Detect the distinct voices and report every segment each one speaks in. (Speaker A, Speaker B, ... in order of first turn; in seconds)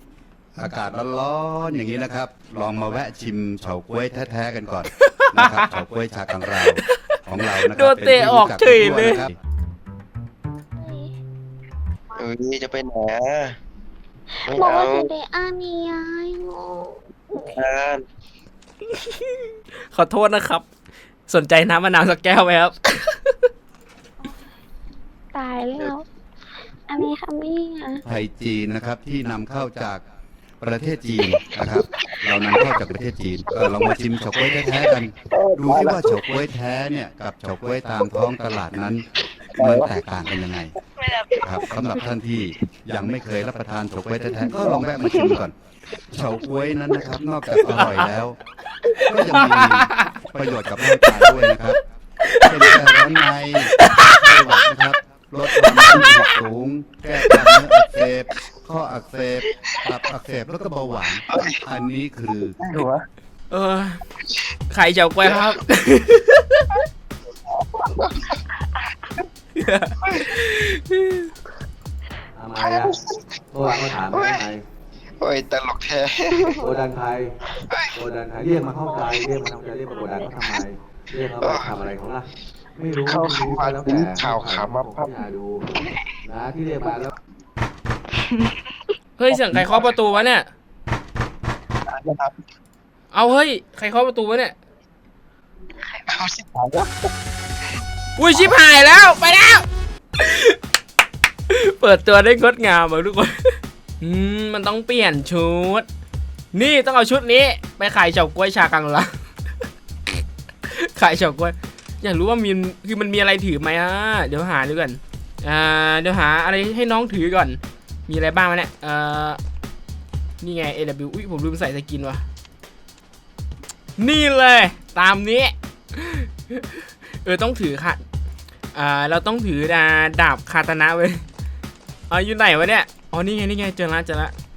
Speaker A: 0.6-9.3, 28.0-30.0, 30.6-39.0, 39.6-40.7, 41.4-45.5, 46.1-48.4, 49.0-51.8, 52.4-62.5
Speaker B: 5.0-5.7, 6.6-7.1, 7.7-9.2, 18.9-19.3, 19.9-20.6, 21.3-23.4, 47.8-48.1, 48.9-50.1, 52.2-52.9, 53.8-54.2, 55.7-56.1, 63.5-64.0, 64.7-66.7, 69.6-71.3, 89.2-90.5, 93.1-94.5, 98.2-99.7, 100.2-100.6, 101.5-105.8, 106.5-109.1, 110.7-119.4, 120.4-122.2, 124.0-128.0, 128.7-131.2, 132.1-134.3
Speaker C: 10.8-11.1, 14.4-17.7, 25.3-26.0, 26.9-28.0
Speaker D: 12.2-13.6, 14.4-15.1, 17.5-18.1, 35.3-36.2, 39.5-40.0, 61.3-61.6, 62.6-63.0, 65.2-65.5, 67.6-68.3, 70.0-70.4, 72.6-74.4, 75.2-76.6, 81.4-81.9, 83.0-85.2, 89.3-89.8, 91.9-92.4, 95.9-97.1
Speaker E: 72.3-73.0, 73.5-74.6, 76.5-77.3, 77.9-85.6, 86.3-87.1